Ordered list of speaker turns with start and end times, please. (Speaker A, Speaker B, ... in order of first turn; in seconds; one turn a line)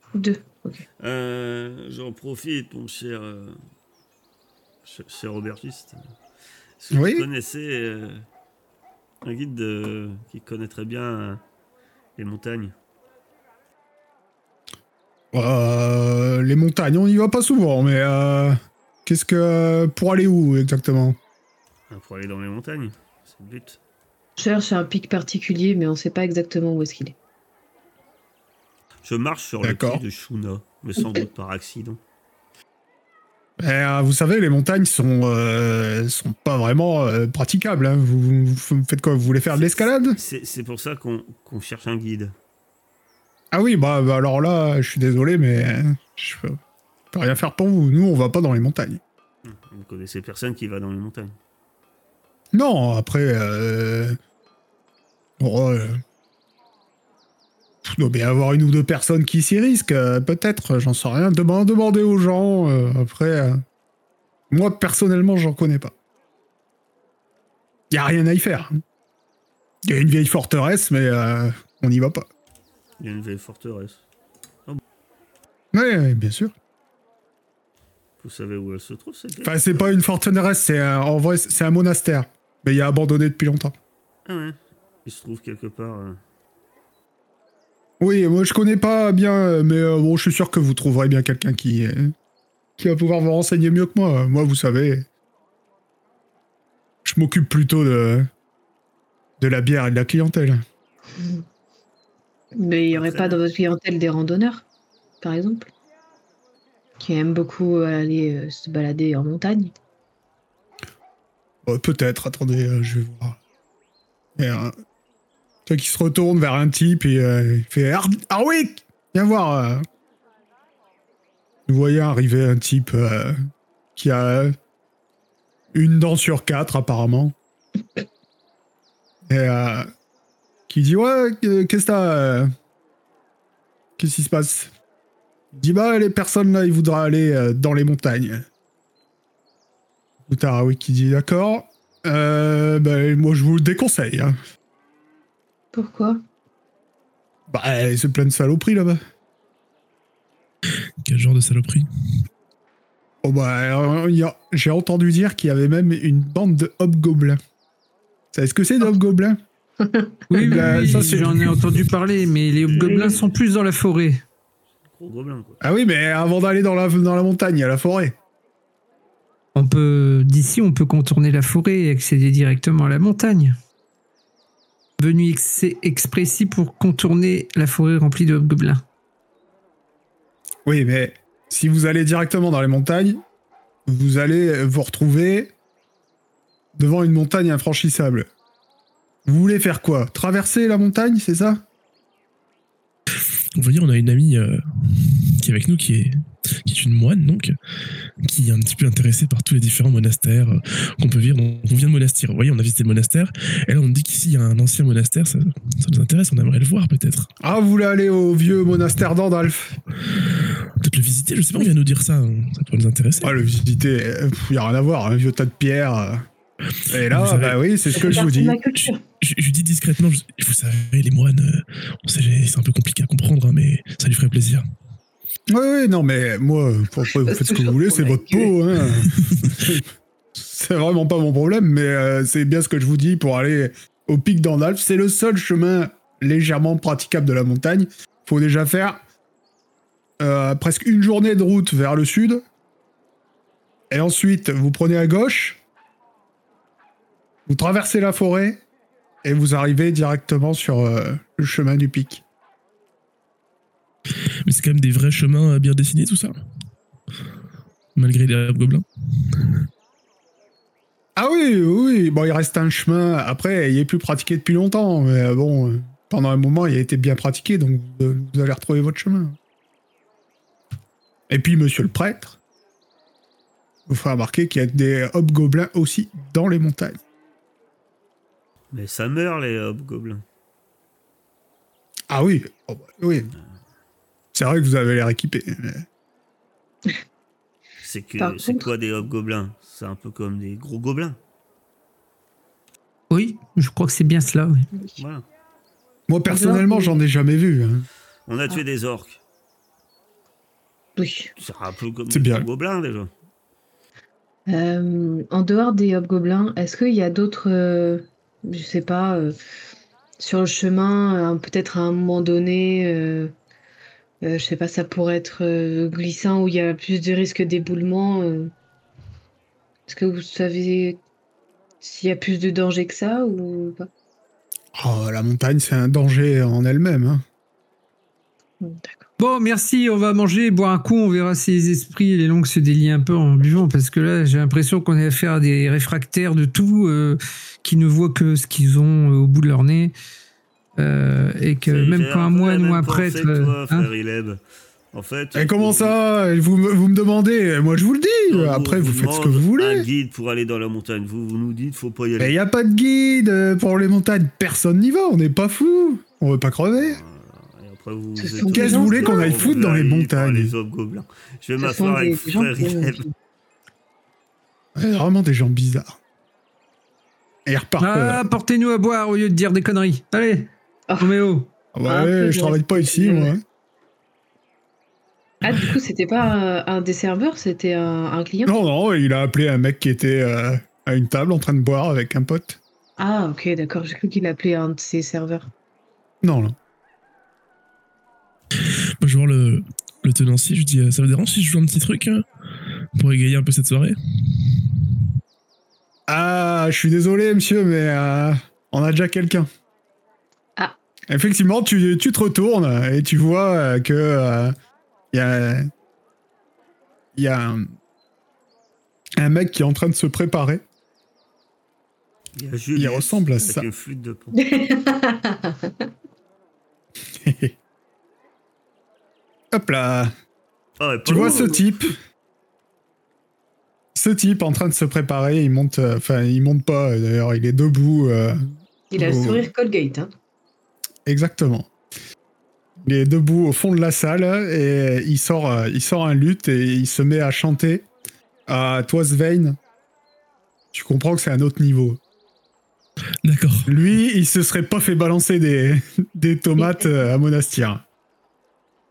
Speaker A: 0.1-0.8
Speaker B: 1.0-3.6
Speaker B: 4.8-6.0
Speaker B: 6.8-8.2
Speaker C: 6.9-7.3
Speaker B: 9.2-11.4
Speaker B: 12.2-12.7
Speaker C: 15.3-21.2
Speaker B: 21.9-23.8
Speaker A: 24.4-27.1
Speaker B: 29.0-32.0
Speaker C: 29.6-30.0
Speaker C: 33.6-40.2
Speaker B: 39.5-42.3
Speaker C: 43.5-46.6
Speaker C: 47.1-49.0
Speaker B: 49.5-51.4
Speaker C: 52.5-54.2
Speaker C: 55.4-56.0
Speaker C: 57.8-63.6
Speaker C: 64.5-65.9
Speaker C: 67.9-68.8
Speaker C: 69.8-72.3
Speaker B: 73.0-74.0
Speaker C: 75.7-76.5
Speaker B: 78.2-79.9
Speaker C: 79.4-83.7
Speaker B: 84.3-86.2
Speaker C: 88.0-92.1
Speaker C: 92.8-95.1
Speaker C: 97.0-98.3
Speaker C: 99.4-100.6
Speaker A: 102.6-104.7
Speaker B: 102.9-103.4
Speaker A: 105.2-105.7
Speaker A: 107.0-109.7
Speaker C: 111.7-113.4
Speaker C: 114.4-114.7
Speaker C: 115.7-119.8
Speaker C: 121.7-123.4
Speaker C: 124.0-124.5
Speaker C: 125.7-127.3
Speaker C: 129.3-129.9
Speaker C: 130.7-132.5
Speaker C: 134.0-134.7
Speaker C: 135.5-138.5
Speaker C: 140.3-144.4
Speaker A: 145.7-146.2
Speaker C: 147.5-149.0
Speaker D: 151.0-151.9
Speaker C: 153.2-157.4
Speaker C: 158.3-159.4
Speaker A: 159.8-161.2
Speaker E: 160.3-164.2
Speaker C: 160.4-161.6
Speaker B: 162.5-163.3
Speaker A: 162.8-163.1
Speaker B: 164.9-165.6
Speaker C: 165.6-168.2
Speaker E: 169.6-173.6
Speaker E: 175.0-178.8
Speaker C: 180.7-183.2
Speaker C: 183.9-185.5
Speaker C: 186.8-188.3
Speaker C: 189.3-191.6
Speaker D: 193.6-197.6
Speaker D: 198.2-207.3
Speaker C: 207.4-209.8
Speaker D: 210.7-213.4
Speaker C: 213.2-216.2
Speaker C: 216.9-218.6
Speaker D: 217.1-217.6
Speaker A: 217.9-219.0
Speaker D: 218.8-224.7
Speaker C: 225.5-239.0
Speaker A: 227.0-228.6
Speaker D: 229.2-229.6
Speaker C: 240.2-242.4
Speaker C: 243.9-245.6
Speaker C: 247.5-248.6
Speaker C: 249.2-252.2
Speaker D: 254.4-256.4
Speaker D: 257.9-259.6
Speaker C: 261.2-269.4
Speaker C: 271.3-272.4
Speaker C: 273.9-277.0
Speaker B: 278.7-280.2
Speaker C: 282.1-283.3
Speaker C: 284.3-285.9
Speaker B: 287.8-291.2
Speaker A: 288.2-288.7
Speaker E: 293.1-294.7
Speaker B: 295.0-295.2
Speaker C: 296.1-297.9
Speaker A: 296.3-297.0
Speaker B: 298.3-299.2
Speaker A: 301.0-301.3
Speaker B: 301.4-303.1
Speaker C: 302.1-302.5
Speaker A: 304.5-309.4
Speaker A: 310.2-313.3
Speaker A: 314.2-318.5
Speaker A: 319.9-321.0
Speaker A: 321.8-323.9
Speaker C: 324.8-327.2
Speaker A: 328.6-329.1
Speaker E: 329.2-339.9
Speaker E: 340.8-343.9
Speaker B: 341.6-344.4
Speaker B: 344.9-345.9
Speaker C: 345.4-349.9
Speaker B: 348.3-352.3
Speaker C: 352.2-357.0
Speaker B: 356.8-363.0
Speaker A: 358.2-359.6
Speaker C: 358.5-360.5
Speaker A: 361.6-363.1
Speaker C: 364.8-366.0
Speaker C: 367.5-368.2
Speaker E: 367.8-370.5
Speaker A: 370.9-371.2
Speaker E: 371.0-371.5
Speaker C: 371.7-373.4
Speaker A: 371.9-373.3
Speaker A: 375.4-378.5
Speaker C: 378.5-382.6
Speaker A: 383.0-385.5
Speaker C: 386.2-386.6
Speaker D: 389.0-392.3
Speaker D: 392.9-394.5
Speaker C: 396.1-399.5
Speaker C: 401.1-404.6
Speaker C: 405.1-405.7
Speaker C: 407.1-407.7
Speaker C: 409.2-410.6
Speaker B: 412.4-414.4
Speaker C: 412.8-413.7
Speaker A: 414.3-415.7
Speaker C: 417.1-417.6
Speaker C: 419.5-420.1
Speaker B: 420.8-421.7
Speaker C: 421.1-422.0
Speaker A: 421.1-421.6
Speaker C: 423.9-428.4
Speaker A: 428.9-430.1
Speaker C: 429.0-429.5
Speaker C: 431.1-431.7
Speaker C: 432.8-437.9
Speaker C: 438.5-439.6
Speaker C: 440.7-442.0
Speaker D: 443.2-443.7
Speaker C: 443.7-447.8
Speaker A: 446.6-447.0